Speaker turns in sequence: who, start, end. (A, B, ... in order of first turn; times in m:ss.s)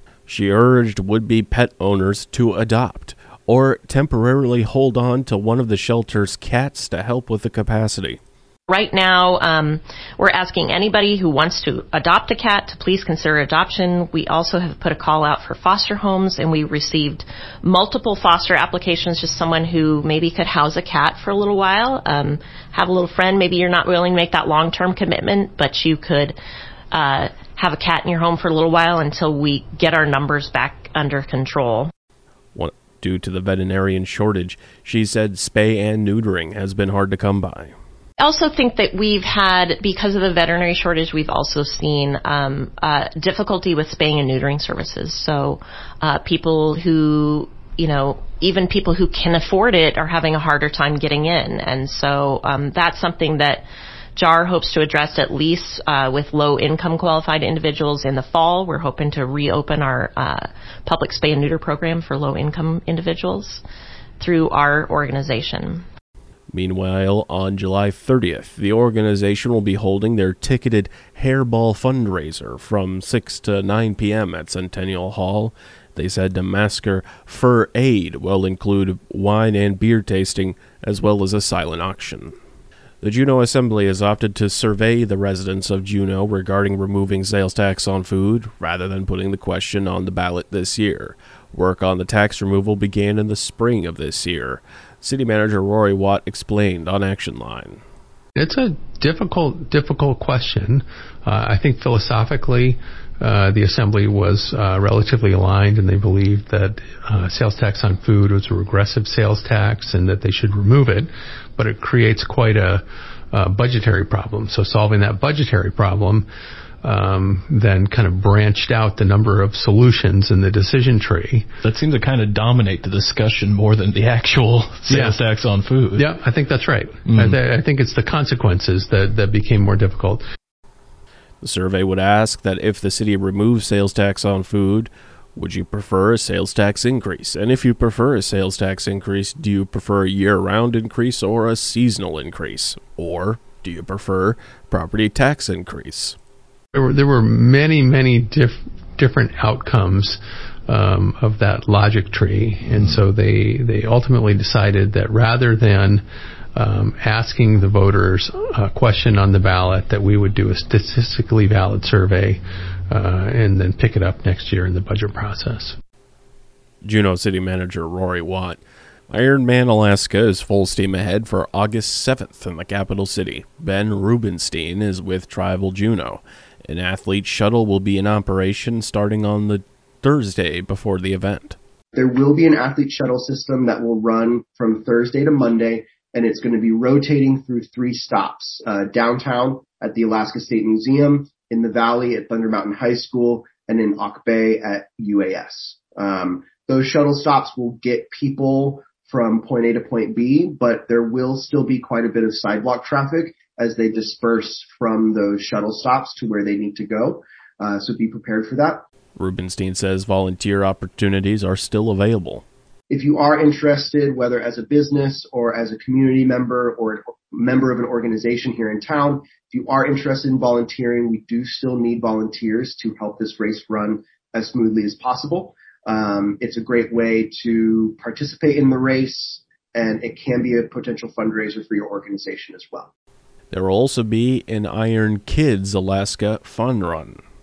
0:00.3-0:08.2 A
0:08.7-0:26.4 B
0:26.9-0:31.9 B
0:32.5-0:37.7 A
0:38.2-0:53.6 B
0:54.2-1:03.6 B
1:04.2-1:05.8 B
1:06.5-1:22.3 A
1:23.0-1:37.8 A
1:38.4-1:56.3 C
1:56.8-2:01.5 C
2:01.6-2:06.0 D
2:04.8-2:05.3 C
2:05.9-2:10.2 C
2:11.4-2:26.2 A
2:26.7-2:36.0 C
2:36.5-2:45.8 C
2:46.8-2:48.6 A
2:49.1-3:01.6 A
3:01.9-3:28.8 E
3:29.2-3:32.4 A
3:32.9-3:52.9 E
3:53.5-3:57.2 A